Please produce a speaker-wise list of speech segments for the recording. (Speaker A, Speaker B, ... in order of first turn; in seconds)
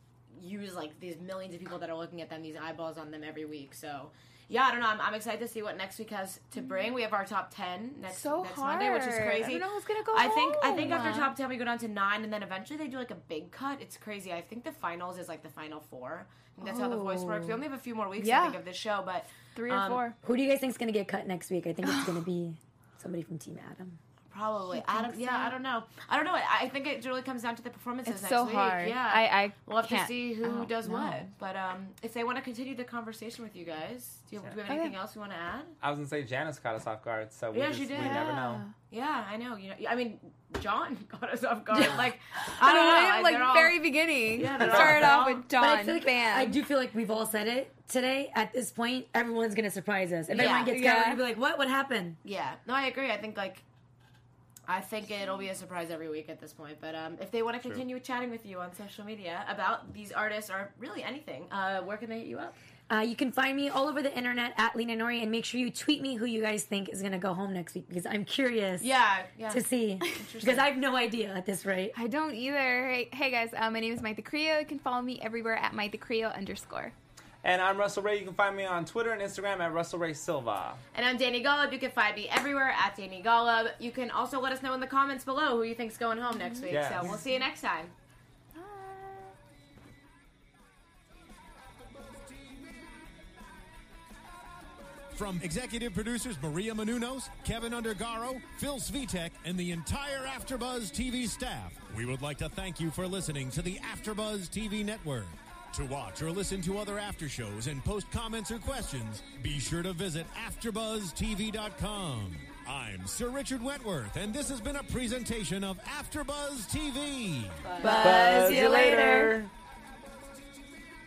Speaker A: 0.4-20.1, 24.3-35.8, 37.5-38.2, 38.9-45.5, 50.3-50.7, 52.2-53.6, 54.7-62.6, 68.8-70.7, 80.9-87.9, 117.6-118.2
Speaker B: 8.1-11.3, 16.6-17.6, 18.2-18.6, 19.6-20.2, 21.8-22.2, 24.7-25.6, 28.1-31.2, 34.7-35.0, 37.9-38.7, 41.7-46.6, 50.3-51.2, 71.9-76.9, 86.5-86.7, 88.5-89.3, 117.8-119.3
Speaker C: 20.2-24.0, 45.6-52.2, 62.9-68.9, 69.5-72.0, 117.8-118.3
Speaker D: 35.8-38.6, 44.6-45.1, 77.4-80.8, 86.7-87.2, 118.0-119.5
Speaker E: 95.1-117.7